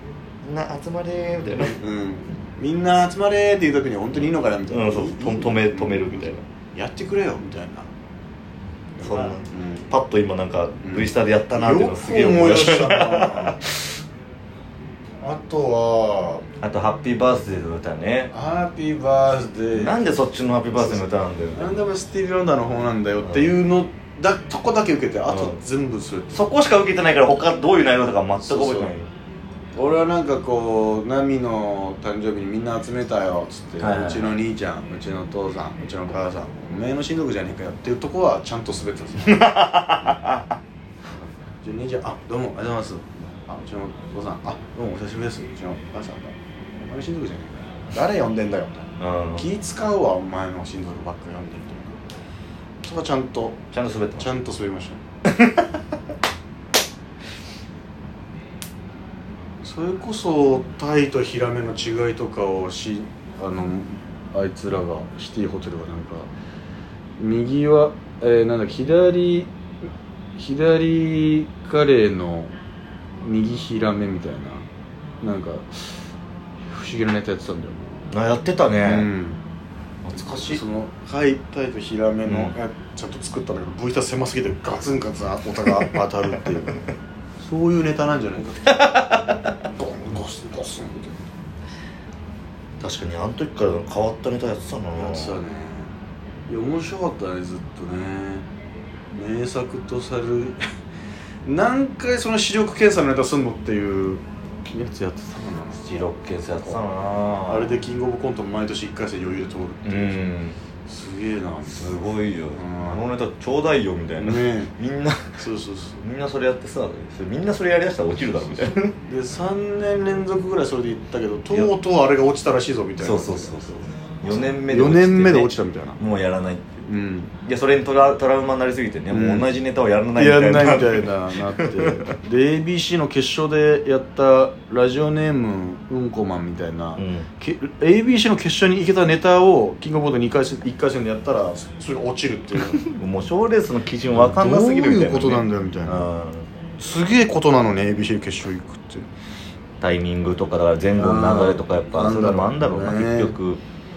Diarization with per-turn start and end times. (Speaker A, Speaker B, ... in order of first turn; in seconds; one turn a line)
Speaker A: 0.4-1.8
Speaker B: 1.6-7.9
Speaker A: 4.7-6.4
Speaker B: 9.0-9.9
Speaker A: 9.0-13.9
Speaker B: 10.8-13.6
Speaker B: 15.2-16.4
Speaker A: 16.6-18.3
Speaker B: 18.3-20.0
Speaker A: 19.7-21.7
Speaker B: 20.7-21.0
Speaker B: 21.5-26.4
Speaker A: 23.2-23.5
Speaker A: 25.3-25.6
Speaker A: 26.3-29.1
Speaker B: 28.4-28.9
Speaker B: 29.8-40.2
Speaker A: 33.8-34.3
Speaker A: 39.3-40.5
Speaker B: 41.6-52.0
Speaker A: 49.0-49.5
Speaker B: 52.8-53.6
Speaker A: 53.7-54.3
Speaker B: 54.2-55.0
Speaker A: 55.3-55.7
Speaker B: 59.6-66.3
Speaker B: 67.2-69.5
Speaker B: 70.4-72.5
Speaker B: 73.2-74.7
Speaker B: 75.2-75.8
Speaker B: 76.7-78.1
Speaker A: 78.1-79.1
Speaker B: 78.8-79.4
Speaker A: 80.0-80.6
Speaker B: 80.2-86.9
Speaker A: 82.3-82.5
Speaker B: 87.4-89.0
Speaker A: 88.7-89.4
Speaker B: 89.7-91.2
Speaker A: 92.8-95.4
Speaker B: 95.0-95.9
Speaker B: 96.5-98.5
Speaker B: 99.1-100.6
Speaker B: 101.4-106.1
Speaker A: 105.8-107.8
Speaker B: 107.5-110.2
Speaker A: 109.8-110.6
Speaker B: 110.9-112.0
Speaker A: 111.7-115.4
Speaker B: 112.5-113.0
Speaker B: 114.2-114.7
Speaker B: 115.4-116.0
Speaker A: 116.0-118.9
Speaker B: 119.0-123.6
Speaker A: 123.0-126.6
Speaker B: 124.2-126.0
Speaker B: 126.8-127.3
Speaker A: 127.5-132.1
Speaker B: 129.1-129.5
Speaker B: 130.1-142.9
Speaker A: 137.0-137.3
Speaker A: 142.8-146.5
Speaker B: 144.1-146.1
Speaker B: 146.8-149.1
Speaker A: 149.8-153.6
Speaker B: 151.0-153.3